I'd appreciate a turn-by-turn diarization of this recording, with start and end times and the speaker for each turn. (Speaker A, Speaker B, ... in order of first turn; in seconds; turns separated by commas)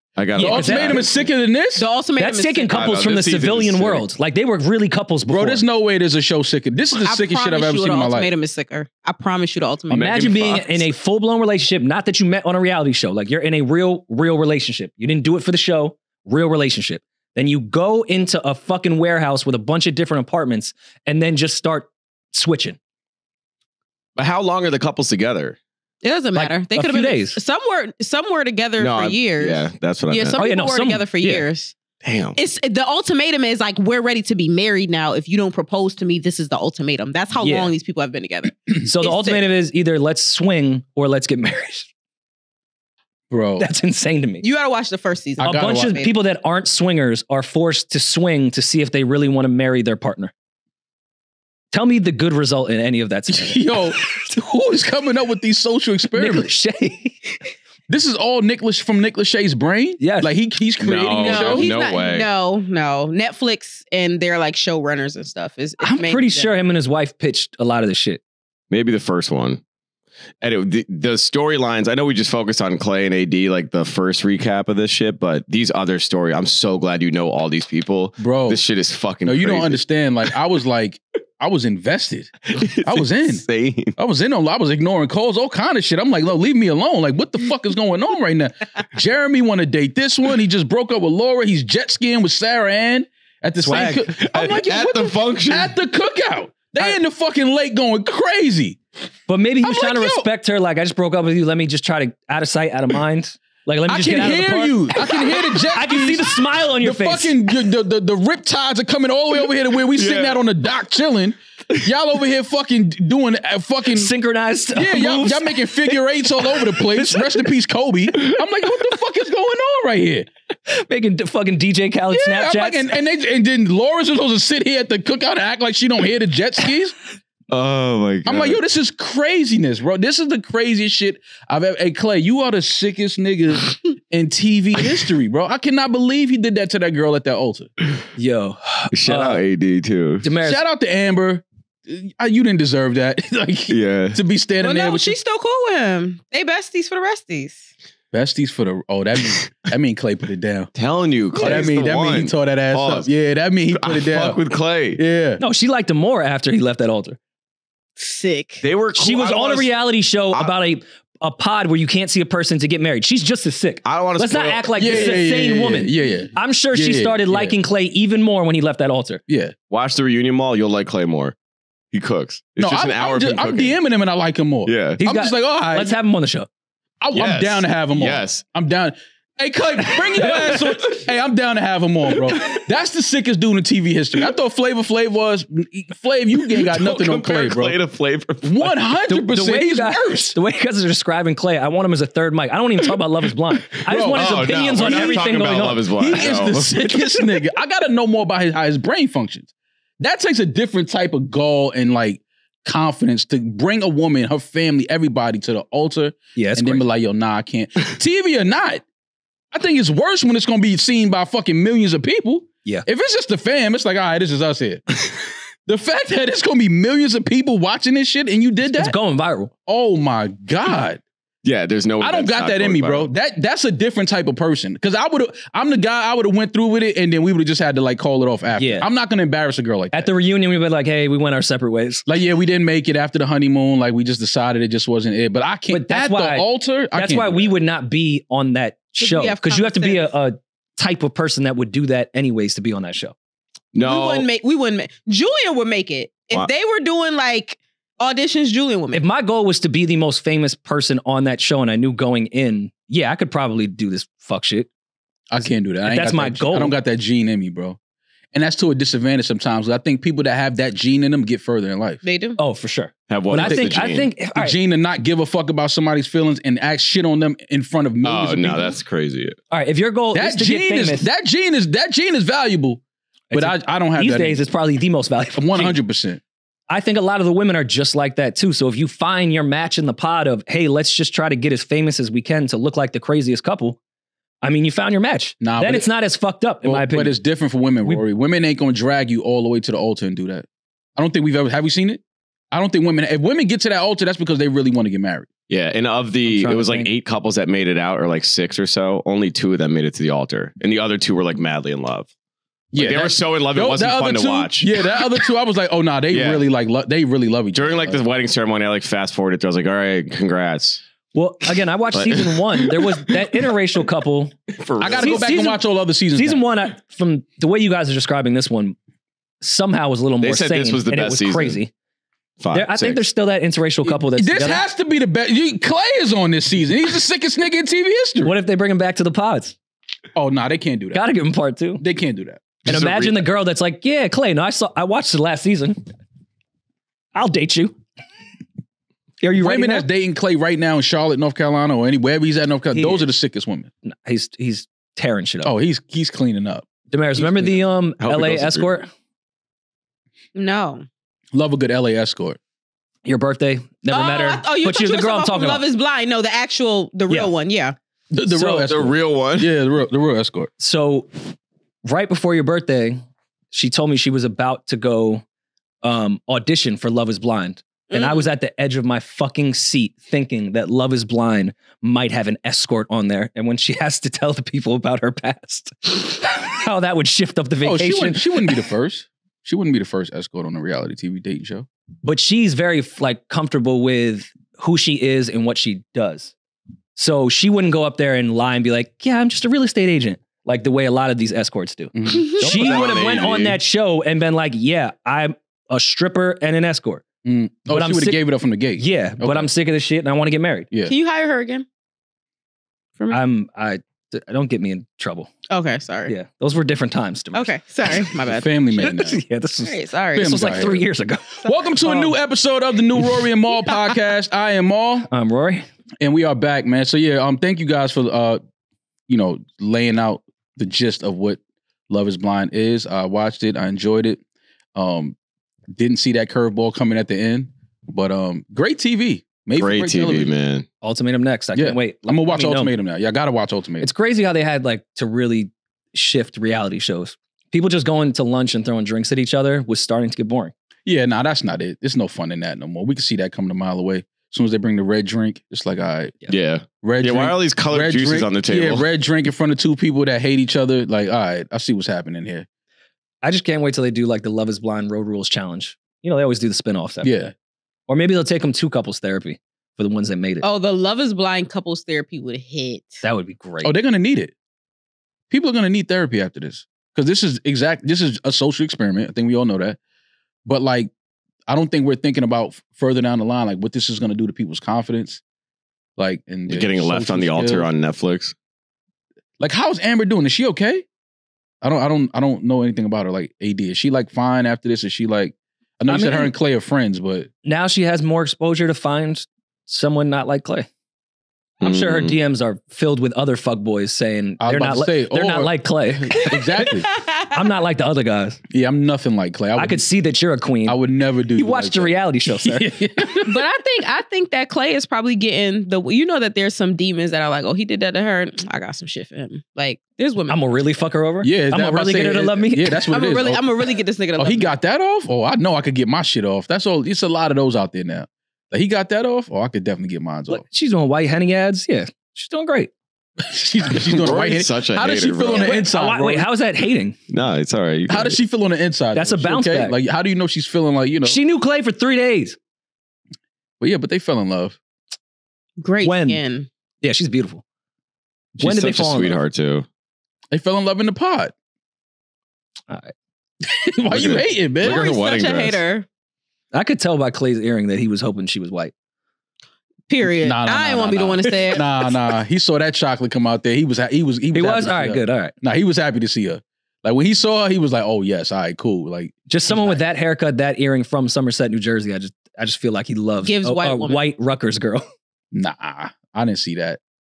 Speaker A: 0.2-1.3, Speaker B: 0.3-1.0, Speaker C: 0.4-1.9, Speaker D: 1.8-2.8, Speaker B: 2.2-5.6, Speaker A: 2.7-4.0, Speaker C: 5.3-8.3, Speaker D: 7.0-10.3, Speaker A: 9.9-10.9, Speaker B: 9.9-22.8, Speaker A: 24.2-25.6, Speaker D: 26.0-31.7, Speaker B: 26.3-27.4, Speaker A: 28.8-30.4, Speaker B: 30.4-31.4, Speaker A: 32.0-32.4, Speaker D: 32.4-39.4, Speaker B: 37.4-37.7, Speaker B: 38.8-41.9, Speaker C: 43.3-43.7, Speaker B: 43.6-44.4, Speaker D: 44.4-46.1, Speaker C: 45.4-46.0, Speaker B: 45.4-50.3, Speaker B: 51.7-54.3, Speaker C: 53.3-56.5, Speaker B: 56.1-57.2, Speaker C: 57.9-61.6, Speaker B: 60.0-60.3, Speaker A: 60.8-62.3, Speaker D: 61.2-66.5, Speaker B: 65.8-68.2, Speaker A: 68.7-69.6, Speaker A: 70.4-79.8, Speaker C: 78.2-78.6, Speaker C: 79.2-83.4, Speaker A: 82.5-84.0, Speaker C: 84.0-98.8, Speaker B: 93.6-94.0, Speaker A: 93.7-95.7, Speaker B: 99.3-107.3, Speaker C: 99.6-100.3, Speaker C: 103.9-114.1, Speaker A: 109.9-110.4, Speaker B: 113.9-116.0, Speaker C: 114.7-120.3, Speaker B: 116.6-117.3, Speaker B: 120.7-122.9, Speaker C: 122.1-126.9, Speaker A: 127.5-128.6, Speaker C: 128.2-137.7, Speaker B: 138.2-139.4, Speaker A: 138.9-140.3, Speaker B: 140.2-140.6, Speaker C: 140.4-145.2, Speaker A: 143.7-144.2, Speaker D: 144.6-147.7, Speaker C: 148.1-150.7, Speaker A: 150.7-153.1, Speaker C: 151.3-154.4, Speaker D: 151.3-151.7, Speaker A: 153.7-155.0, Speaker C: 154.9-155.4, Speaker B: 155.4-157.2, Speaker D: 158.0-158.6, Speaker A: 158.6-159.7, Speaker B: 158.9-169.2, Speaker A: 163.8-165.2, Speaker C: 164.8-167.6, Speaker C: 169.3-169.5, Speaker A: 169.7-171.3, Speaker A: 171.9-173.8, Speaker C: 172.6-175.9, Speaker A: 174.7-175.0, Speaker B: 175.0-176.5, Speaker C: 177.0-187.8, Speaker A: 177.1-178.4, Speaker B: 179.9-180.6, Speaker A: 186.5-188.8, Speaker C: 188.4-190.3, Speaker B: 189.1-195.8, Speaker C: 193.8-208.8, Speaker A: 194.1-196.7, Speaker B: 206.3-206.8, Speaker C: 209.5-214.8, Speaker C: 215.7-218.9, Speaker B: 218.7-219.5, Speaker C: 219.7-221.0, Speaker A: 221.4-223.1, Speaker C: 222.0-230.1, Speaker B: 228.6-228.8, Speaker B: 229.9-232.0, Speaker C: 232.1-237.5, Speaker B: 235.7-243.1, Speaker D: 239.0-240.1, Speaker A: 243.7-244.3, Speaker D: 243.8-249.0, Speaker B: 248.9-254.7, Speaker C: 255.3-257.8, Speaker B: 255.9-256.8, Speaker C: 258.3-262.0, Speaker D: 262.0-262.4, Speaker B: 262.4-264.6, Speaker A: 263.1-264.1, Speaker C: 263.4-268.8, Speaker A: 268.0-269.3, Speaker B: 269.5-271.1, Speaker C: 270.1-272.8, Speaker B: 273.3-275.8, Speaker C: 273.3-274.4, Speaker C: 275.4-276.2, Speaker B: 276.7-283.8, Speaker B: 284.4-287.2, Speaker C: 285.4-285.9, Speaker C: 286.6-295.3, Speaker A: 295.5-302.1, Speaker B: 296.2-296.9, Speaker C: 302.7-308.0, Speaker A: 302.8-305.0, Speaker A: 306.1-306.4, Speaker A: 307.5-310.8, Speaker B: 311.1-315.6, Speaker A: 311.9-312.8, Speaker A: 314.6-315.3, Speaker C: 314.8-316.4, Speaker B: 316.1-318.8, Speaker B: 319.4-321.7, Speaker A: 320.2-321.6, Speaker A: 322.4-323.0, Speaker B: 322.5-324.6, Speaker C: 323.8-328.3, Speaker B: 328.2-329.5, Speaker C: 330.1-331.0, Speaker B: 330.9-331.8, Speaker C: 331.8-332.4, Speaker A: 332.6-333.2, Speaker B: 332.6-335.8, Speaker B: 337.1-337.8, Speaker B: 339.2-339.9, Speaker C: 339.4-343.7, Speaker B: 342.7-343.1, Speaker B: 343.8-345.5, Speaker C: 345.4-347.6, Speaker B: 346.9-348.9, Speaker A: 348.0-348.7, Speaker D: 350.3-350.8, Speaker C: 351.3-352.4, Speaker B: 353.1-355.6, Speaker D: 353.9-357.7, Speaker C: 358.1-360.5, Speaker B: 358.3-358.7, Speaker A: 358.6-359.5, Speaker B: 360.6-361.1, Speaker B: 361.9-365.2, Speaker B: 365.8-378.3, Speaker D: 367.9-368.2, Speaker C: 377.6-381.7, Speaker B: 382.0-386.3, Speaker B: 386.9-397.0, Speaker C: 391.9-392.3, Speaker D: 392.1-392.4, Speaker A: 392.4-393.6, Speaker C: 397.2-399.5, Speaker B: 397.7-398.2, Speaker B: 398.8-400.7, Speaker D: 400.9-401.6, Speaker B: 403.1-405.3, Speaker D: 405.5-406.1, Speaker B: 406.1-407.5, Speaker D: 407.3-408.6, Speaker C: 408.3-409.2, Speaker B: 408.8-412.1, Speaker D: 409.6-410.8, Speaker C: 410.1-410.8, Speaker C: 411.4-415.1, Speaker B: 415.1-415.7, Speaker C: 416.0-418.4, Speaker C: 419.1-424.2, Speaker C: 424.7-425.1, Speaker C: 425.7-430.3, Speaker A: 429.6-430.6, Speaker B: 430.8-432.7, Speaker C: 431.5-433.9, Speaker B: 433.8-440.5, Speaker C: 440.8-446.2, Speaker A: 446.3-448.8, Speaker C: 446.8-452.4, Speaker B: 453.2-457.1, Speaker C: 457.0-457.3, Speaker B: 457.9-460.4, Speaker D: 460.4-463.0, Speaker B: 463.0-463.7, Speaker C: 463.6-464.3, Speaker C: 465.3-469.8, Speaker C: 470.4-470.9, Speaker C: 471.5-475.2, Speaker C: 476.0-477.7, Speaker A: 476.5-478.3, Speaker C: 479.4-480.8, Speaker C: 481.6-487.3, Speaker B: 485.9-486.3, Speaker B: 487.4-490.7, Speaker A: 491.6-492.1, Speaker B: 491.6-496.6, Speaker C: 494.4-496.9, Speaker D: 496.6-497.4, Speaker B: 497.3-498.4, Speaker C: 498.5-499.8, Speaker B: 499.6-500.8, Speaker C: 500.6-503.4, Speaker B: 501.4-502.7, Speaker D: 503.2-510.4, Speaker B: 510.3-512.8, Speaker C: 511.2-513.4, Speaker D: 512.9-514.5, Speaker C: 514.2-520.4, Speaker B: 520.3-522.7, Speaker C: 523.2-526.3, Speaker A: 523.9-525.4, Speaker B: 525.4-527.0, Speaker A: 527.1-528.2, Speaker C: 527.9-531.2, Speaker B: 528.9-529.8, Speaker B: 531.0-532.4, Speaker C: 533.6-534.6, Speaker D: 535.6-536.5, Speaker B: 535.8-536.2, Speaker B: 536.8-537.4, Speaker B: 538.4-539.2, Speaker A: 538.4-539.6, Speaker C: 540.3-541.3, Speaker C: 543.5-544.9, Speaker A: 543.9-545.6, Speaker D: 544.6-545.9, Speaker B: 546.5-548.7, Speaker D: 549.9-551.6, Speaker C: 550.2-559.8, Speaker B: 554.3-555.3, Speaker B: 559.3-564.9, Speaker D: 563.2-564.0, Speaker C: 565.3-566.8